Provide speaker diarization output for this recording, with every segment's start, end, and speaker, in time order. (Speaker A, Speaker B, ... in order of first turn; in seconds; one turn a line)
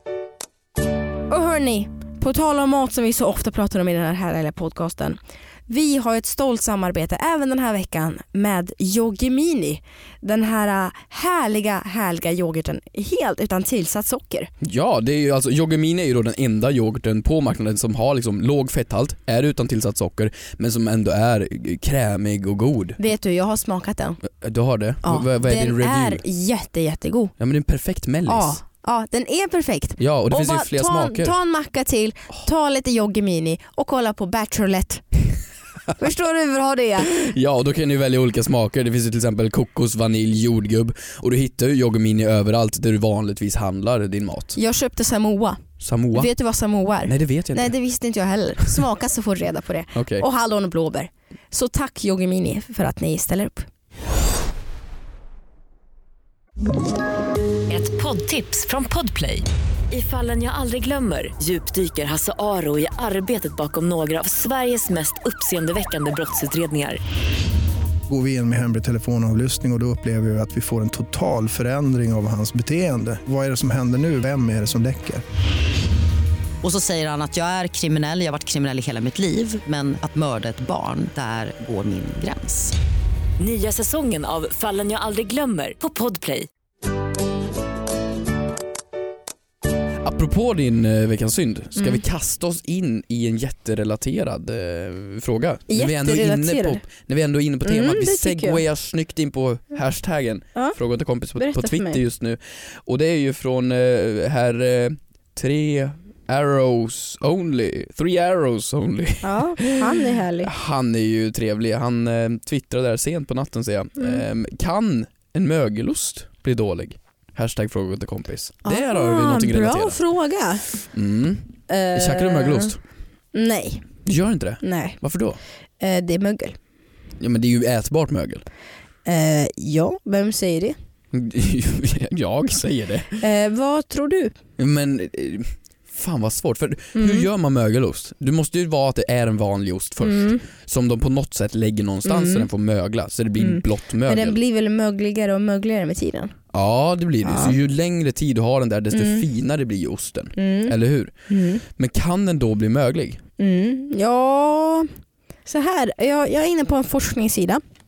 Speaker A: 1.3-14.5
Speaker B: 14.6-23.0
Speaker A: 23.0-24.2
Speaker B: 24.2-26.2
Speaker A: 25.0-27.3
Speaker B: 27.4-28.6
Speaker A: 28.3-35.0
Speaker B: 30.0-31.4
Speaker A: 36.0-37.1
Speaker B: 37.1-44.6
Speaker A: 44.5-53.7
Speaker B: 45.8-46.3
Speaker B: 47.0-47.8
Speaker B: 50.0-50.3
Speaker C: 57.7-67.0
Speaker D: 68.1-75.2
Speaker E: 76.6-82.8
Speaker C: 83.4-86.5
Speaker B: 90.0-120.0
Speaker A: 91.8-92.0
Speaker A: 95.7-96.8
Speaker A: 97.7-98.6
Speaker A: 101.4-102.0
Speaker A: 109.2-110.5
Speaker A: 118.7-120.7
Speaker B: 120.9-122.8
Speaker A: 121.7-122.8
Speaker A: 123.3-123.9
Speaker B: 124.0-125.4
Speaker A: 124.6-125.0
Speaker A: 125.8-126.6
Speaker B: 127.2-128.4
Speaker A: 129.1-130.8
Speaker B: 131.1-133.2
Speaker A: 133.2-134.3
Speaker B: 134.6-144.4
Speaker A: 136.9-137.3
Speaker A: 140.0-140.4
Speaker A: 142.1-142.5
Speaker A: 143.4-146.3
Speaker B: 146.5-153.2
Speaker A: 147.2-147.6
Speaker A: 148.9-149.3
Speaker A: 150.4-150.8
Speaker A: 151.3-151.6
Speaker A: 153.4-154.9
Speaker A: 155.5-157.6